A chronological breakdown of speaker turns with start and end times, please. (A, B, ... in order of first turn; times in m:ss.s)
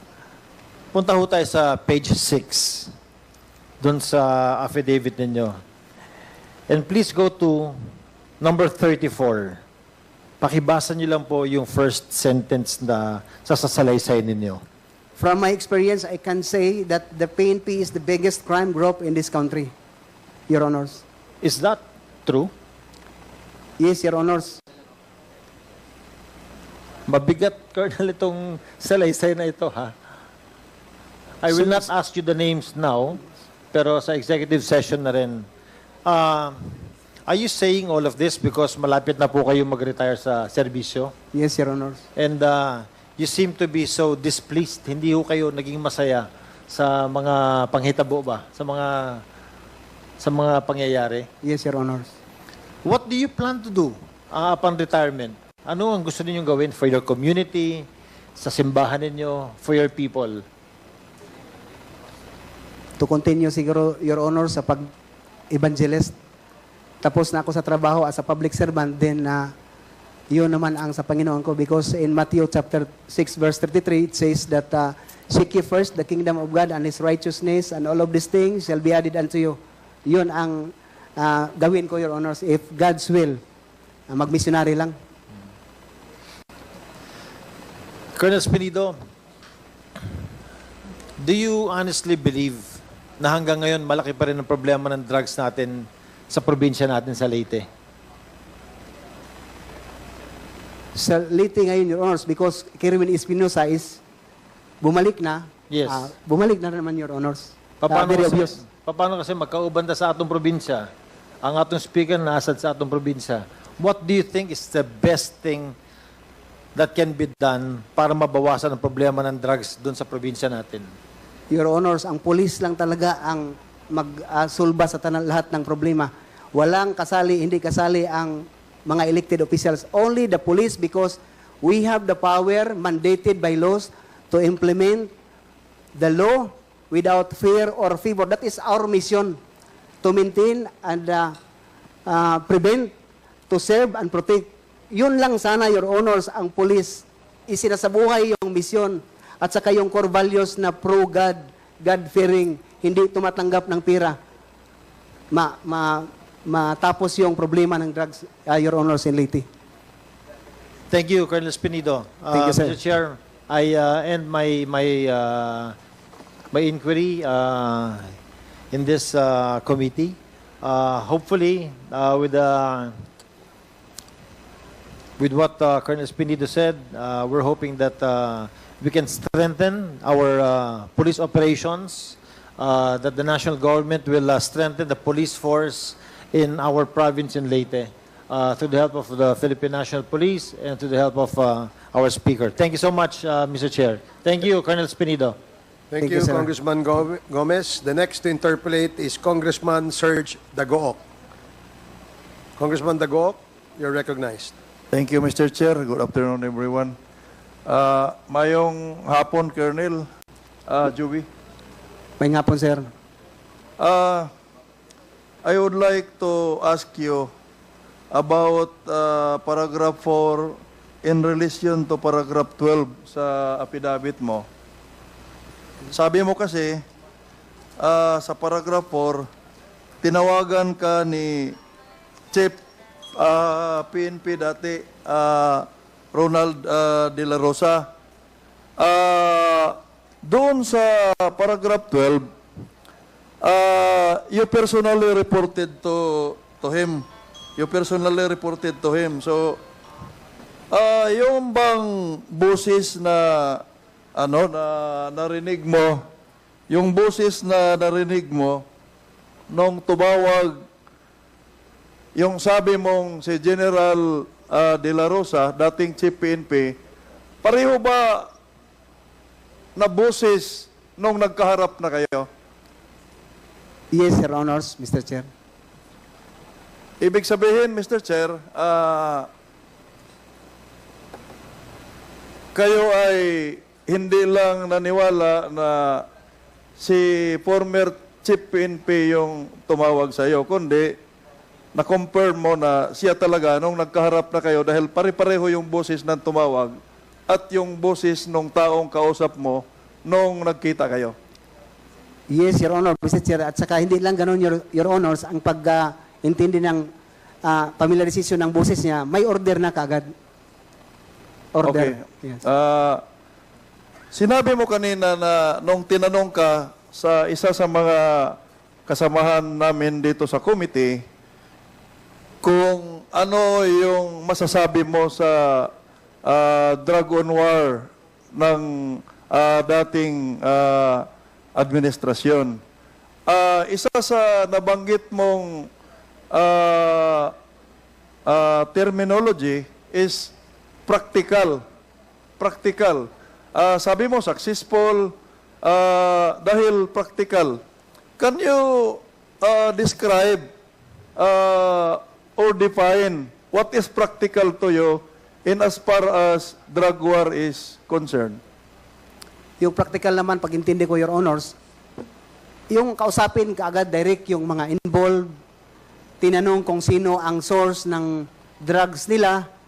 0:00.9-0:02.9 A
0:03.8-0:05.6 A
0:06.7-0:09.6 A
0:10.4-0:14.6 A
0:15.2-0:19.7 B
0:20.5-0:21.0 B
0:21.4-0:22.5 A
0:23.8-0:24.6 B
0:27.1-0:29.9 A
0:31.4-0:33.2 A
0:31.5-0:31.9 B
0:33.7-0:35.5 A
0:36.0-0:41.1 A
0:41.3-0:42.0 B
0:42.2-0:49.2 A
0:50.2-0:51.3 A
0:51.4-0:52.1 B
0:52.8-1:00.4 A
1:03.0-1:04.9 B
1:05.5-1:06.1 B
1:07.0-1:09.5 B
1:10.3-1:23.4 B
1:24.1-1:25.0 B
1:28.1-1:29.0 A
1:31.2-1:37.7 A
1:40.9-1:44.0 B
1:44.8-1:48.6 B
1:45.7-1:46.1 A
1:47.8-1:50.9 A
1:51.4-1:55.7 A
1:56.7-2:00.9 A
2:01.5-2:15.1 B
2:16.0-2:19.4 B
2:20.0-2:21.4 B
2:22.0-2:22.9 B
2:23.5-2:34.2 B
2:35.3-2:39.4 B
2:40.9-2:45.8 A
2:42.3-2:42.8 B
2:46.5-2:48.1 A
2:48.7-2:53.0 A
2:55.2-3:15.4 A
3:15.9-3:21.0 C
3:16.0-3:16.5 B
3:22.6-3:24.5 C
3:24.9-3:26.9 D
3:27.6-3:30.1 D
3:30.7-3:31.3 D
3:32.2-3:32.9 B
3:33.8-3:34.3 D
3:35.4-3:37.3 D
3:38.1-3:44.4 D
3:45.9-3:46.8 D
3:47.8-3:49.3 D
3:50.0-3:51.6 D
3:52.3-3:52.6 D
3:53.2-3:57.9 D
3:58.8-4:02.2 D
4:03.4-4:07.0 D
4:07.6-4:09.6 D
4:10.7-4:13.6 D
4:14.2-4:16.0 D
4:16.7-4:18.6 D
4:19.5-4:20.6 D
4:22.1-4:26.7 D
4:27.4-4:28.3 D
4:29.8-4:32.3 D
4:33.9-4:35.3 B
4:37.0-4:39.3 D
4:42.5-4:46.0 D
4:46.8-4:51.0 D
4:51.7-4:56.8 D
4:57.3-5:01.1 D
5:02.3-5:06.9 B
5:07.4-5:10.1 B
5:11.5-5:12.4 B
5:11.6-5:13.0 D
5:14.1-5:21.0 D
5:22.4-5:25.7 D
5:26.2-5:32.6 D
5:33.3-5:35.7 D
5:36.3-5:37.3 D
5:38.2-5:40.3 D
5:40.9-5:41.6 D
5:42.4-5:47.6 D
5:48.2-5:50.4 D
5:51.2-5:58.4 D
5:59.6-6:01.6 B
6:02.7-6:05.3 B
6:06.2-6:09.5 B